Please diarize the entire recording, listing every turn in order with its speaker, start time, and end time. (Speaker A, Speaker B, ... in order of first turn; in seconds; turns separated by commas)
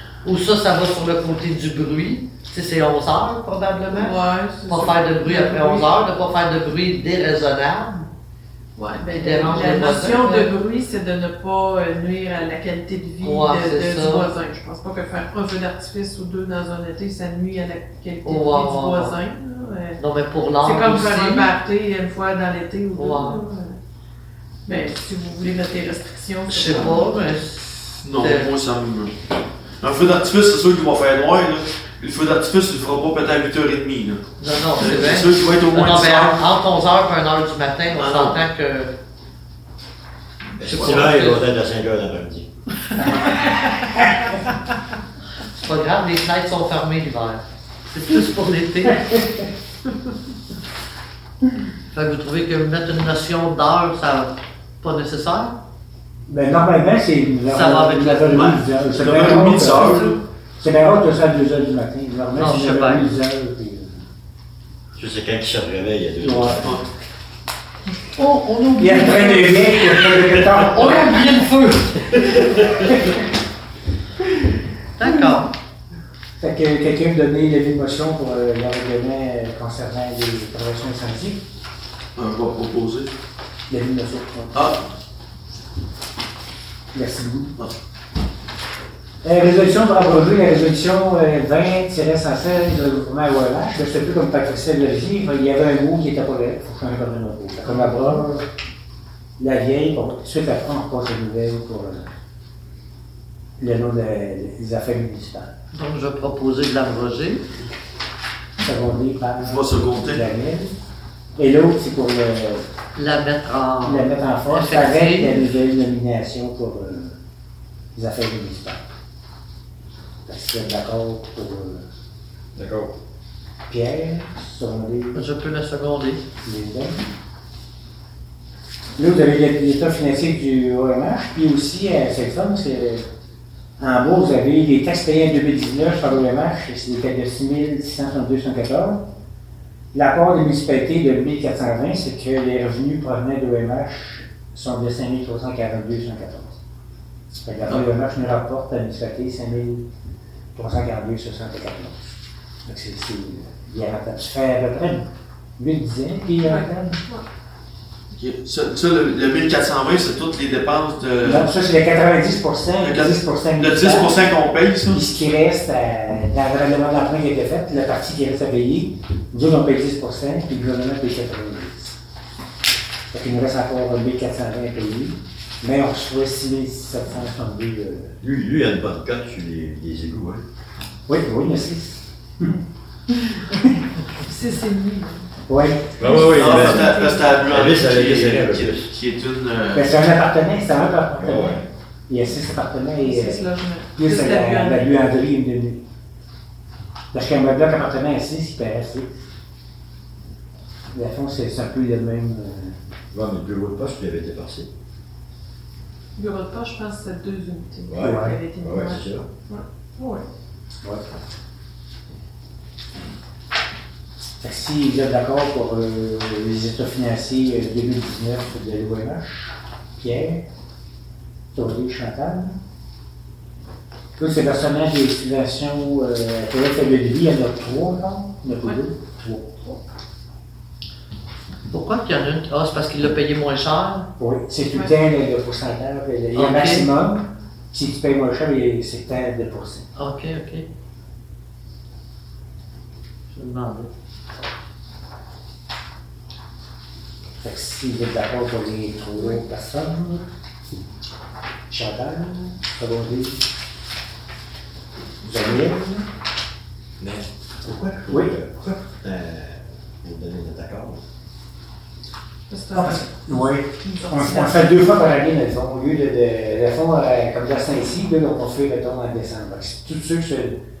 Speaker A: 0.2-8.1, Speaker B: 3.9-5.9, Speaker B: 8.8-20.0, Speaker A: 9.1-10.5, Speaker A: 13.2-14.3, Speaker A: 18.2-19.1, Speaker A: 20.0-21.5, Speaker B: 20.6-23.8, Speaker A: 22.9-23.4, Speaker B: 24.6-27.1, Speaker A: 26.5-28.5, Speaker C: 28.0-29.1, Speaker C: 29.8-34.2, Speaker A: 34.4-38.9, Speaker C: 34.8-36.4, Speaker C: 38.0-38.4, Speaker D: 40.6-42.5, Speaker A: 40.6-41.4, Speaker C: 40.7-41.0, Speaker A: 45.5-49.0, Speaker E: 48.9-49.5, Speaker A: 51.9-55.6, Speaker E: 56.3-60.0, Speaker A: 57.5-58.4, Speaker C: 58.3-60.2, Speaker E: 60.6-64.1, Speaker A: 62.3-63.1, Speaker D: 65.0-66.7, Speaker E: 66.2-66.8, Speaker C: 66.6-66.8, Speaker A: 68.2-72.1, Speaker E: 68.8-71.3, Speaker D: 72.1-72.9, Speaker E: 72.8-73.2, Speaker E: 74.2-75.4, Speaker A: 75.0-75.5, Speaker E: 76.4-81.4, Speaker C: 82.2-83.1, Speaker E: 83.7-84.9, Speaker E: 86.9-87.5, Speaker E: 89.2-98.5, Speaker A: 97.7-98.2, Speaker E: 99.4-102.1, Speaker E: 103.6-105.5, Speaker A: 105.7-107.5, Speaker E: 108.6-110.7, Speaker C: 109.4-110.2, Speaker E: 111.3-112.6, Speaker A: 112.9-115.5, Speaker E: 113.8-117.2, Speaker E: 117.9-118.8, Speaker E: 120.2-121.9, Speaker D: 122.5-122.9, Speaker E: 123.7-125.2, Speaker A: 125.1-126.2, Speaker E: 126.4-127.0, Speaker E: 129.0-133.1, Speaker E: 133.8-139.0, Speaker E: 139.9-146.6, Speaker E: 147.4-149.8, Speaker E: 150.5-152.1, Speaker E: 152.6-155.1, Speaker E: 155.6-157.0, Speaker B: 156.4-157.2, Speaker C: 158.1-161.5, Speaker E: 161.2-164.3, Speaker C: 162.8-165.0, Speaker E: 164.9-172.0, Speaker E: 173.1-178.1, Speaker D: 178.2-180.4, Speaker E: 181.1-183.8, Speaker B: 184.2-185.3, Speaker E: 185.5-186.1, Speaker D: 186.0-188.9, Speaker B: 186.0-187.4, Speaker C: 186.2-189.9, Speaker E: 189.7-193.4, Speaker D: 191.2-191.6, Speaker B: 193.0-194.9, Speaker E: 193.9-195.8, Speaker E: 197.1-199.1, Speaker E: 200.9-202.8, Speaker D: 203.1-204.7, Speaker B: 206.2-210.2, Speaker D: 207.9-209.3, Speaker E: 208.0-208.4, Speaker E: 214.4-220.4, Speaker E: 221.5-222.6, Speaker E: 224.2-229.6, Speaker A: 231.7-234.1, Speaker E: 234.2-239.9, Speaker A: 236.3-236.9, Speaker A: 239.9-240.7, Speaker A: 243.3-243.9, Speaker E: 247.4-250.2, Speaker E: 251.7-253.4, Speaker E: 255.2-256.1, Speaker D: 257.0-261.0, Speaker B: 262.5-263.2, Speaker E: 262.7-270.6, Speaker B: 263.8-264.6